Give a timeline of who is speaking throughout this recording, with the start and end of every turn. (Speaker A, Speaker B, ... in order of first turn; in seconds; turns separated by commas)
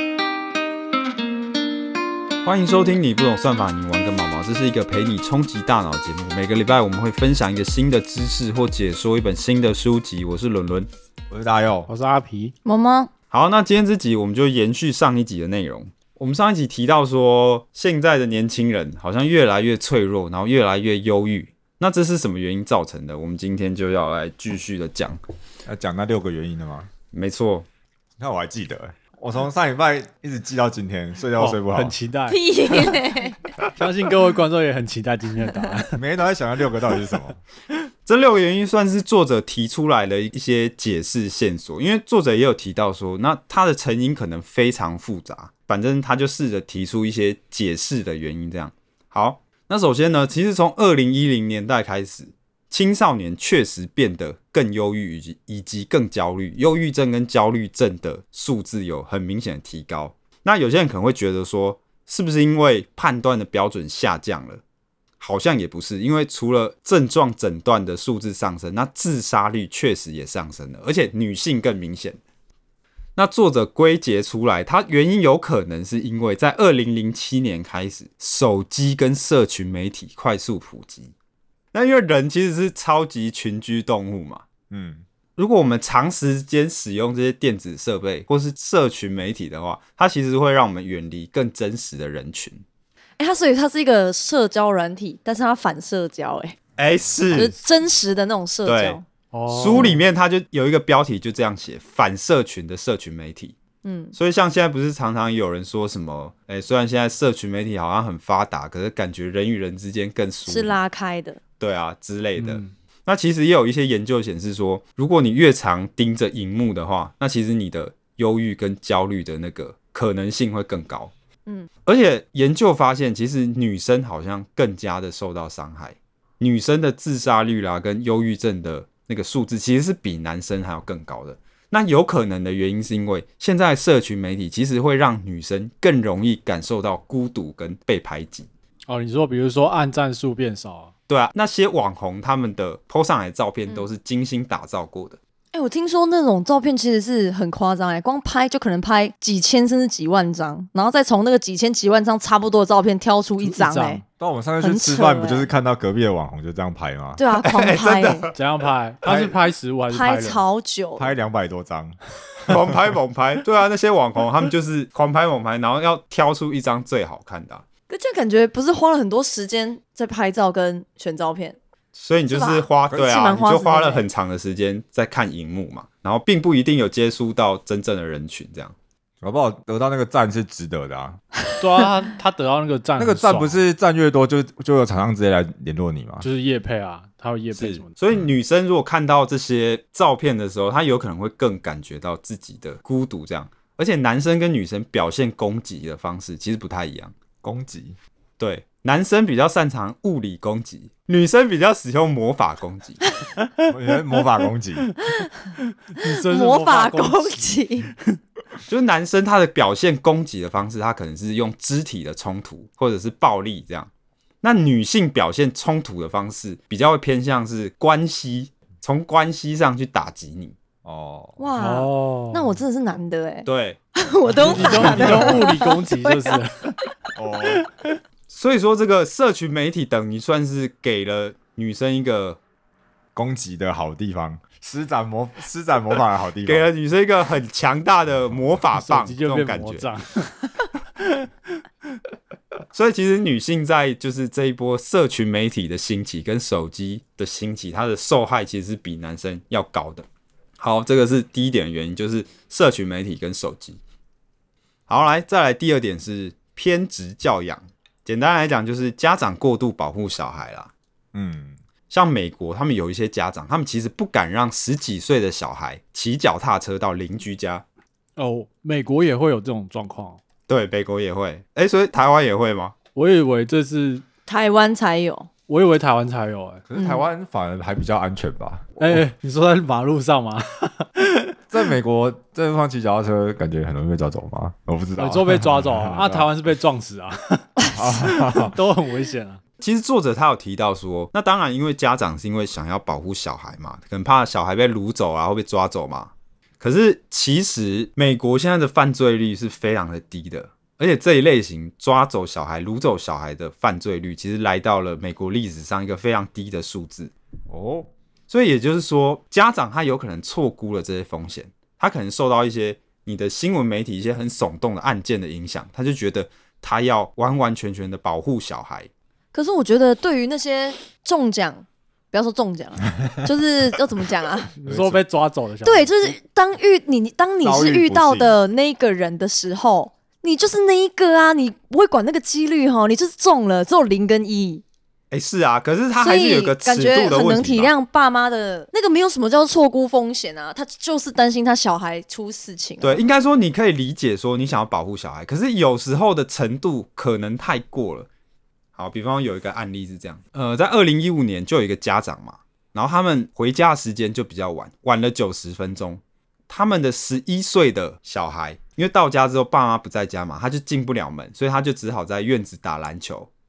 Speaker A: 2.4-10.9, Speaker B: 11.3-11.9, Speaker C: 11.9-12.5, Speaker D: 12.6-13.1, Speaker A: 13.3-25.2, Speaker B: 25.6-26.9, Speaker A: 27.1-27.6, Speaker B: 28.2-31.9, Speaker C: 31.4-33.0, Speaker D: 32.3-33.4, Speaker C: 33.7-36.0, Speaker B: 35.9-37.4, Speaker A: 38.0-64.6, Speaker A: 65.2-72.2, Speaker A: 73.2-81.1, Speaker A: 81.7-84.4, Speaker B: 84.7-85.0, Speaker A: 85.4-92.6, Speaker D: 93.2-96.6, Speaker A: 96.8-97.5, Speaker D: 97.3-99.0, Speaker A: 98.6-103.5, Speaker C: 99.3-100.0, Speaker D: 99.7-100.0, Speaker D: 103.8-104.2, Speaker A: 104.1-110.8, Speaker D: 110.4-111.4, Speaker A: 111.6-121.1, Speaker C: 112.4-112.7, Speaker A: 121.8-138.5, Speaker C: 138.9-140.9, Speaker A: 141.1-145.2, Speaker D: 145.5-154.0, Speaker C: 153.4-154.0, Speaker B: 154.2-157.2, Speaker D: 154.6-155.5, Speaker D: 157.2-158.3, Speaker A: 157.4-158.3, Speaker C: 158.3-160.4, Speaker B: 159.0-159.4, Speaker D: 159.9-161.1, Speaker B: 161.0-162.7, Speaker A: 162.4-167.6, Speaker D: 167.9-171.6, Speaker A: 171.9-178.7, Speaker D: 172.3-174.1, Speaker B: 179.2-181.2, Speaker C: 181.6-183.6, Speaker B: 183.0-186.3, Speaker C: 186.2-187.9, Speaker A: 187.5-197.1, Speaker B: 197.4-197.9, Speaker A: 198.4-203.0, Speaker B: 203.7-204.9, Speaker D: 205.1-207.9, Speaker C: 205.9-207.5, Speaker A: 208.7-213.9, Speaker A: 214.4-220.6, Speaker B: 220.8-221.4, Speaker D: 221.4-226.4, Speaker C: 221.6-222.5, Speaker A: 223.4-223.8, Speaker C: 224.4-226.7, Speaker B: 224.5-225.3, Speaker B: 227.1-227.6, Speaker C: 227.4-228.0, Speaker A: 228.3-232.4, Speaker B: 233.1-236.7, Speaker A: 236.4-239.9, Speaker C: 238.7-241.6, Speaker A: 242.7-250.1, Speaker A: 250.6-253.8, Speaker A: 254.9-260.7, Speaker B: 261.1-261.6, Speaker A: 261.9-267.6, Speaker C: 268.2-270.2, Speaker A: 270.5-272.7, Speaker C: 272.9-274.0, Speaker D: 274.3-275.3, Speaker C: 275.5-276.6, Speaker B: 276.7-279.0, Speaker D: 276.7-277.1, Speaker C: 278.8-281.4, Speaker B: 281.5-286.3, Speaker C: 285.0-289.4, Speaker B: 287.7-288.6, Speaker A: 289.6-307.1, Speaker B: 307.5-307.9, Speaker A: 308.3-318.9, Speaker D: 319.3-324.5, Speaker C: 324.5-326.1, Speaker B: 324.6-325.0, Speaker D: 325.6-334.6, Speaker B: 327.4-328.4, Speaker A: 335.1-337.7, Speaker D: 336.0-343.0, Speaker A: 342.8-348.1, Speaker A: 348.8-363.3